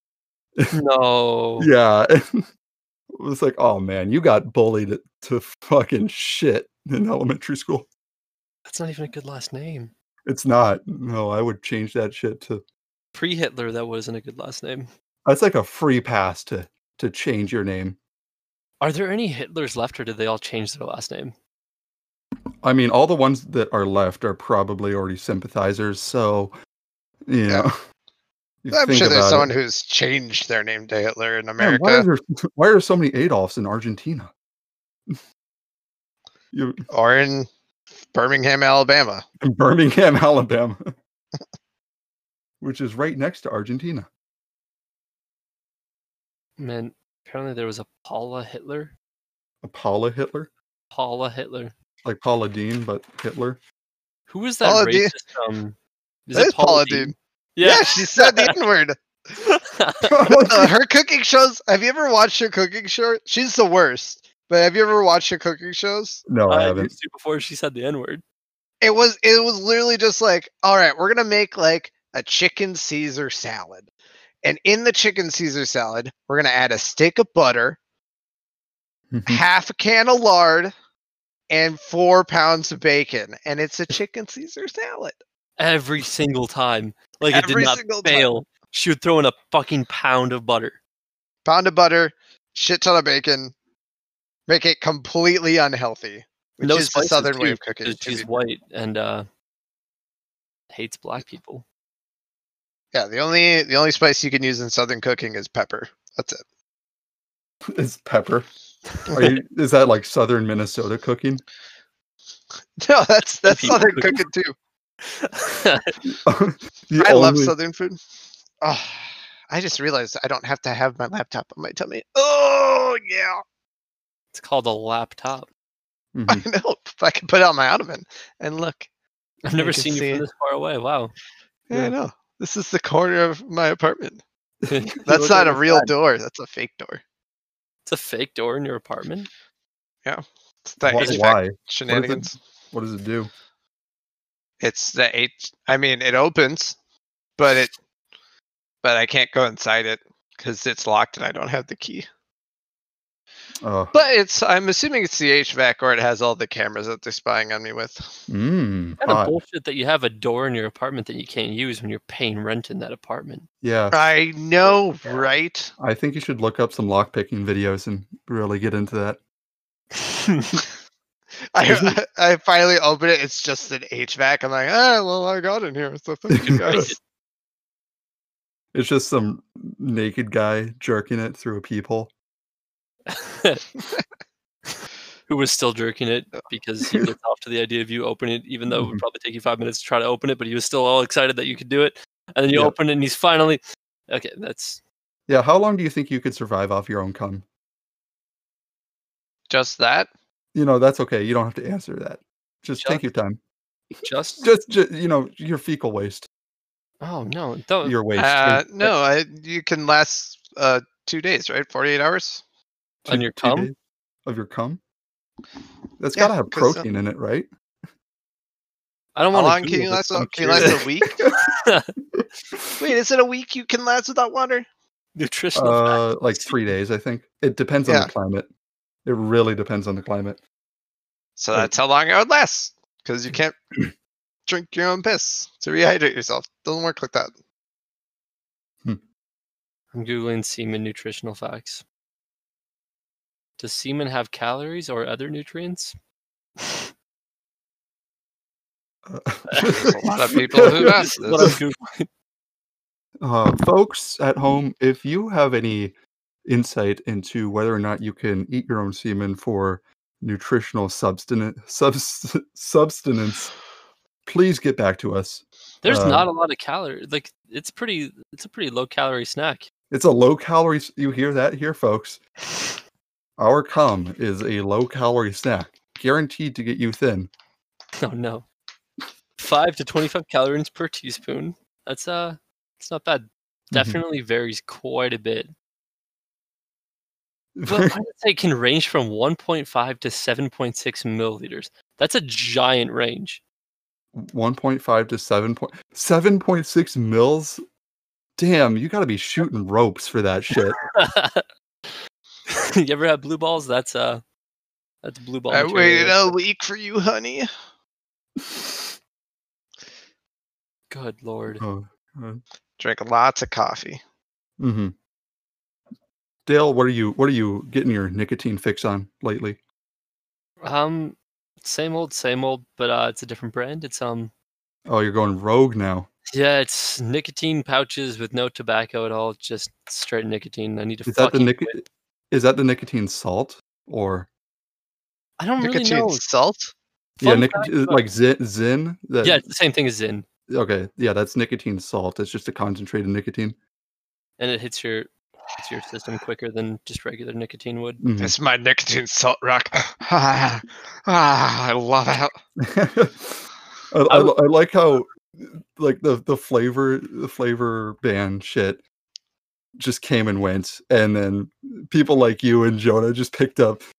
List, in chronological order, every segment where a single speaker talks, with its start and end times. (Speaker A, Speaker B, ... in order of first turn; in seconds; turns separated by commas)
Speaker A: 0.7-1.7, Speaker B: 1.6-2.5, Speaker B: 3.1-7.9, Speaker A: 8.7-9.9, Speaker B: 10.2-12.6, Speaker A: 13.1-14.9, Speaker B: 15.2-18.0, Speaker A: 18.8-21.3, Speaker B: 22.6-26.5, Speaker B: 27.3-27.7, Speaker B: 28.6-29.5, Speaker C: 28.7-32.0, Speaker B: 31.6-34.3, Speaker B: 36.5-36.8, Speaker C: 36.9-37.5, Speaker C: 38.1-39.2, Speaker B: 39.4-40.9, Speaker B: 42.6-44.1, Speaker A: 46.6-48.9, Speaker B: 49.6-50.5, Speaker A: 50.9-51.7, Speaker B: 52.0-53.6, Speaker A: 54.3-55.8, Speaker C: 54.6-55.1, Speaker A: 56.3-58.5, Speaker C: 56.3-59.0, Speaker A: 59.3-60.2, Speaker B: 60.1-60.7, Speaker C: 60.2-66.2, Speaker B: 66.3-66.9, Speaker A: 66.5-68.2, Speaker C: 68.8-73.9, Speaker C: 74.4-77.8, Speaker B: 79.1-79.4, Speaker C: 79.3-80.7, Speaker C: 81.5-85.2, Speaker A: 85.6-90.8, Speaker C: 87.3-88.3, Speaker C: 91.4-93.5, Speaker C: 94.5-98.3, Speaker A: 96.6-99.3, Speaker A: 100.7-101.6, Speaker C: 102.9-106.4, Speaker B: 107.7-108.5, Speaker B: 109.1-111.4, Speaker C: 112.8-114.5, Speaker A: 113.4-114.2, Speaker A: 115.0-115.9, Speaker B: 116.0-117.5, Speaker C: 117.0-118.0, Speaker C: 118.6-123.4, Speaker A: 124.3-125.5, Speaker B: 126.1-126.4, Speaker C: 126.3-128.9, Speaker A: 129.4-131.1, Speaker C: 129.6-130.2, Speaker C: 131.7-134.2, Speaker B: 134.6-135.5, Speaker A: 134.7-135.9, Speaker C: 135.1-137.0, Speaker A: 137.8-139.3, Speaker C: 140.0-142.3, Speaker B: 140.8-143.3, Speaker A: 141.0-141.2, Speaker C: 144.6-146.8, Speaker C: 147.4-147.7, Speaker C: 148.8-152.1, Speaker B: 153.6-153.9, Speaker C: 153.9-158.2, Speaker B: 158.3-159.4, Speaker A: 159.0-163.4, Speaker B: 163.6-164.0, Speaker C: 163.9-165.7, Speaker B: 165.8-169.2, Speaker A: 169.9-170.6, Speaker C: 171.5-176.9, Speaker B: 171.7-172.0, Speaker B: 176.3-176.9, Speaker A: 176.4-177.0, Speaker B: 178.7-182.1, Speaker A: 183.1-183.6, Speaker A: 185.3-194.8, Speaker B: 188.7-189.0, Speaker B: 195.3-197.4, Speaker C: 199.5-200.1, Speaker B: 200.5-203.4, Speaker A: 202.8-203.0, Speaker A: 204.0-204.5, Speaker B: 204.4-206.3, Speaker A: 207.0-208.0, Speaker B: 207.8-208.9, Speaker C: 208.2-212.4, Speaker B: 213.1-214.8, Speaker A: 213.1-213.7, Speaker B: 216.0-217.5, Speaker C: 216.1-216.8, Speaker A: 219.1-221.9, Speaker C: 219.3-221.2, Speaker B: 220.2-221.3, Speaker B: 222.2-222.7, Speaker C: 222.8-224.7, Speaker A: 225.2-226.6, Speaker B: 225.5-228.5, Speaker C: 227.8-228.1, Speaker B: 229.0-230.4, Speaker C: 231.4-233.6, Speaker C: 234.5-237.3, Speaker A: 239.9-241.8, Speaker A: 243.6-245.9, Speaker A: 246.6-246.9, Speaker B: 249.1-251.6, Speaker A: 249.5-249.8, Speaker C: 249.7-251.6, Speaker A: 250.5-252.1, Speaker B: 253.2-255.9, Speaker B: 256.4-263.5, Speaker B: 264.2-266.3, Speaker A: 265.8-269.7, Speaker B: 269.9-272.2, Speaker B: 273.4-277.3, Speaker A: 278.0-278.4, Speaker A: 279.4-285.5, Speaker B: 283.7-284.0, Speaker B: 287.6-287.9, Speaker A: 287.6-293.4, Speaker B: 294.1-297.6, Speaker B: 298.4-300.8, Speaker A: 300.6-301.4, Speaker A: 302.5-304.2, Speaker A: 305.0-306.4, Speaker C: 305.5-307.5, Speaker B: 308.4-308.9, Speaker A: 310.9-311.6, Speaker B: 311.6-312.4, Speaker C: 312.8-314.0, Speaker B: 314.6-314.9, Speaker B: 316.4-319.6, Speaker A: 320.6-324.3, Speaker B: 324.9-326.1, Speaker A: 326.3-331.8, Speaker B: 331.1-334.3, Speaker A: 335.4-336.2, Speaker C: 335.6-336.7, Speaker B: 337.2-339.4, Speaker A: 337.2-338.0, Speaker A: 339.2-340.2, Speaker B: 340.5-343.6, Speaker A: 344.4-348.0, Speaker B: 348.0-348.3, Speaker C: 348.2-352.3, Speaker B: 352.6-358.8, Speaker A: 354.1-354.3, Speaker B: 359.8-363.8